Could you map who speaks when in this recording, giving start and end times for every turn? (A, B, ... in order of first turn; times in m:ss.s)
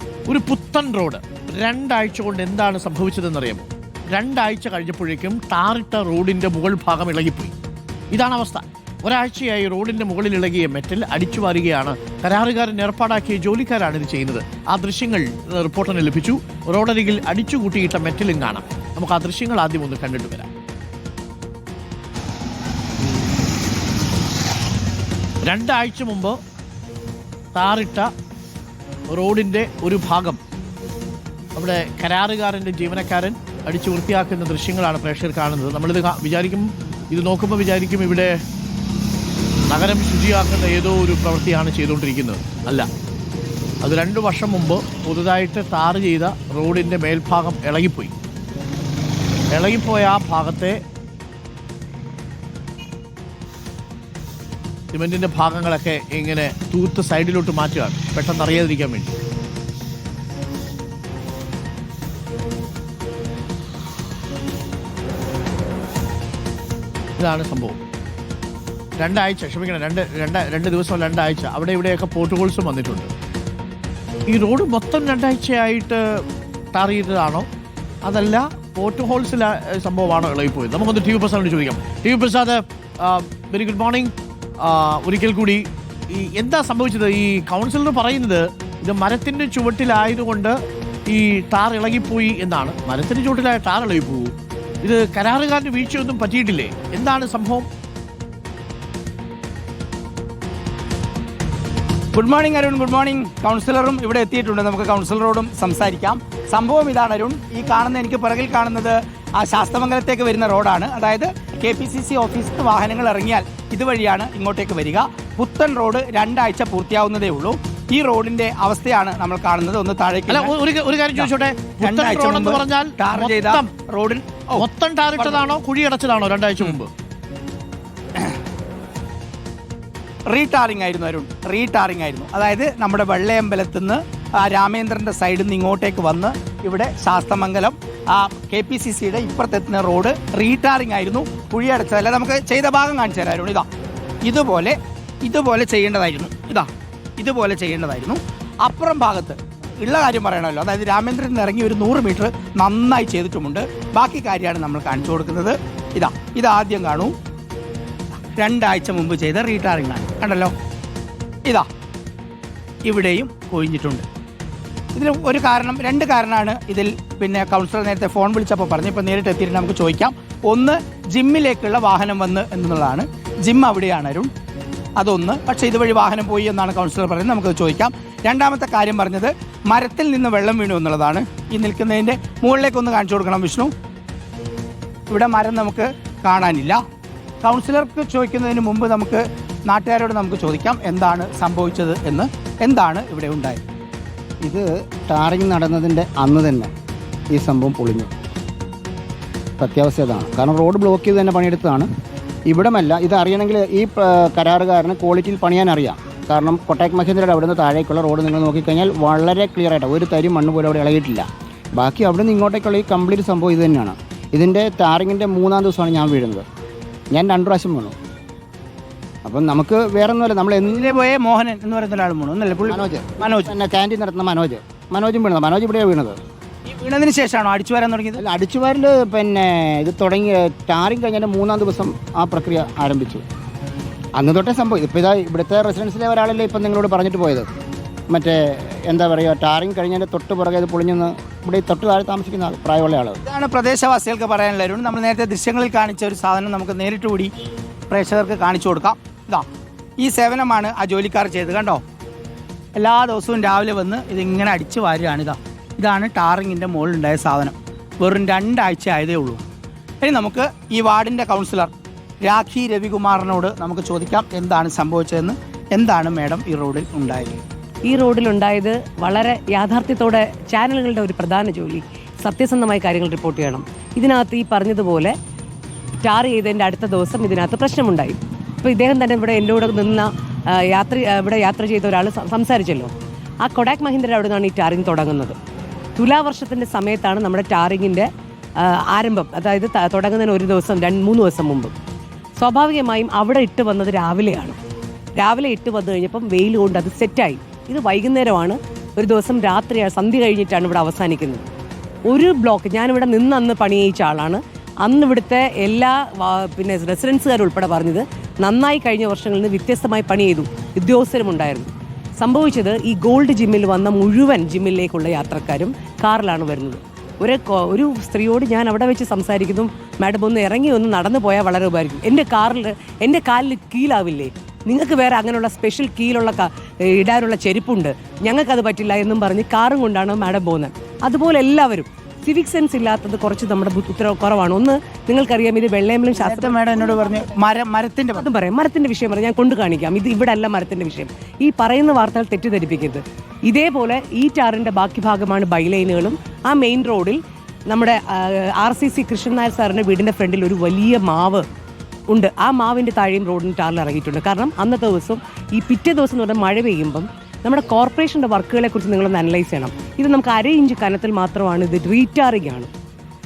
0:00.3-0:07.5 A
0:08.1-0:20.5 A
0:25.4-0:26.4 A
0:27.5-0:28.1 A
0:29.1-0:30.4 A
0:31.6-0:38.4 A
0:39.7-0:42.9 A
0:43.8-0:48.1 A
0:49.5-0:50.8 A
0:54.9-0:59.1 A
1:07.2-1:07.8 A
1:09.0-1:13.1 A
1:14.3-1:16.0 A
1:16.7-1:17.5 A
1:18.0-1:34.3 A
1:34.8-1:37.7 A
1:42.1-2:00.5 B
2:00.3-2:03.7 A
2:01.1-2:04.6 B
2:04.6-2:06.9 A
2:05.2-2:05.5 B
2:10.3-2:23.7 B
2:24.2-2:37.1 B
2:38.4-2:40.5 B
2:42.8-2:44.0 B
2:44.9-2:54.3 B
2:55.0-3:03.7 B
3:05.1-3:06.8 B
3:07.4-3:13.6 B
3:14.4-3:16.7 C
3:17.3-3:18.1 C
3:19.6-3:21.9 C
3:22.5-3:36.4 C
3:37.1-3:37.9 C
3:39.2-3:40.9 C
3:40.7-3:43.5 B
3:42.6-3:46.2 C
3:46.7-3:48.2 B
3:48.2-3:53.2 C
3:54.2-3:57.4 C
3:58.1-4:03.2 C
4:03.2-4:07.3 B
4:07.9-4:09.4 B
4:10.0-4:11.8 B
4:12.7-4:19.4 B
4:20.0-4:27.4 B
4:27.8-4:35.1 D
4:36.0-4:42.9 D
4:43.4-4:45.4 D
4:46.0-4:51.7 D
4:52.4-4:54.6 D
4:55.2-5:01.4 D
5:02.0-5:36.9 D
5:36.2-5:38.2 B
5:38.1-5:51.4 D
5:52.1-6:02.7 D